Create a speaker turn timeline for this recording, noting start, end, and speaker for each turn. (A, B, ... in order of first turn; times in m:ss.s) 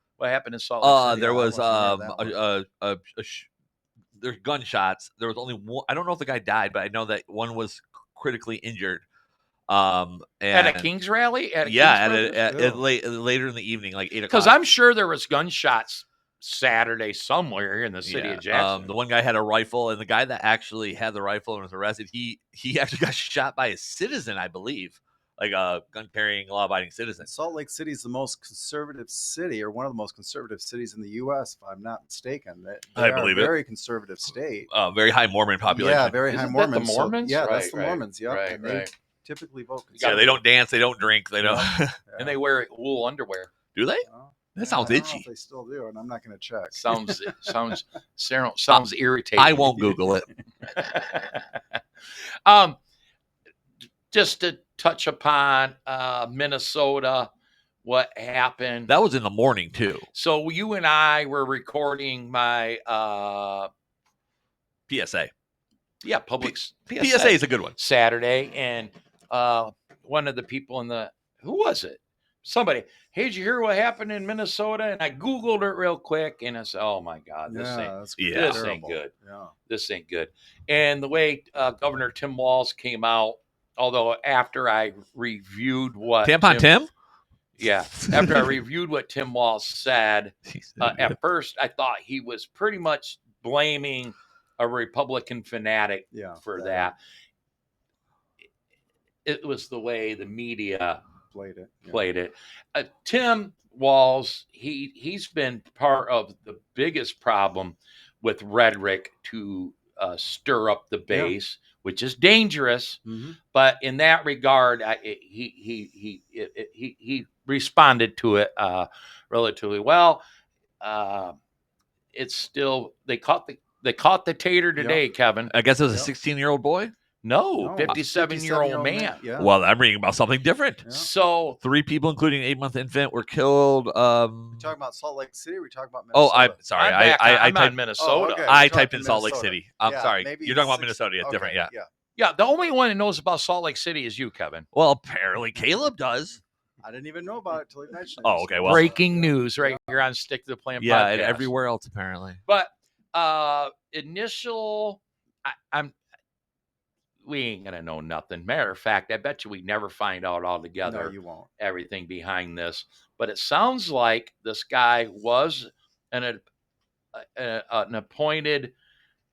0:00.2-0:01.2 A
0:00.8-0:03.5 B
0:01.0-0:02.4 C
0:04.2-0:09.0 B
0:09.7-0:10.9 B
0:10.5-0:12.5 A
0:11.6-0:14.5 B
0:12.5-0:12.8 C
0:14.3-0:18.9 A
0:18.0-0:27.3 B
0:27.2-0:34.7 C
0:33.0-0:33.6 B
0:34.7-0:36.2 B
0:35.7-0:40.4 C
0:36.2-0:38.9 A
0:39.9-0:40.4 A
0:40.0-0:42.0 B
0:41.4-0:42.4 C
0:42.2-0:43.5 A
0:43.8-0:45.2 B
0:44.1-0:47.5 C
0:46.7-0:49.9 A
0:49.4-0:50.3 B
0:50.6-0:51.6 A
0:52.4-0:52.8 A
0:54.1-0:57.3 A
0:57.8-0:58.9 A
0:58.9-1:00.1 B
1:00.1-1:03.7 A
1:04.9-1:05.3 B
1:06.0-1:19.1 A
1:06.4-1:07.8 B
1:17.5-1:19.5 C
1:18.2-1:18.7 B
1:19.7-1:26.7 A
1:26.2-1:26.9 B
1:27.6-1:37.0 A
1:28.0-1:28.6 B
1:30.5-1:31.2 B
1:36.1-1:36.9 C
1:39.2-1:41.0 A
1:41.3-1:42.0 C
1:41.9-1:53.0 A
1:53.1-1:53.4 C
1:53.5-2:00.2 A
2:00.8-2:01.4 A
2:02.1-2:05.5 A
2:04.8-2:05.0 C
2:05.5-2:06.9 B
2:07.2-2:09.2 A
2:07.6-2:09.5 C
2:09.4-2:10.9 B
2:11.0-2:11.6 A
2:11.6-2:14.7 B
2:14.5-2:16.6 C
2:16.1-2:17.8 B
2:16.8-2:18.7 A
2:18.0-2:21.9 C
2:18.4-2:21.7 B
2:22.2-2:24.7 A
2:24.7-2:26.4 B
2:26.8-2:30.0 C
2:28.2-2:28.9 B
2:28.6-2:31.5 A
2:30.8-2:32.4 B
2:32.5-2:36.0 A
2:37.2-2:46.4 A
2:40.8-2:41.5 C
2:47.1-2:48.7 A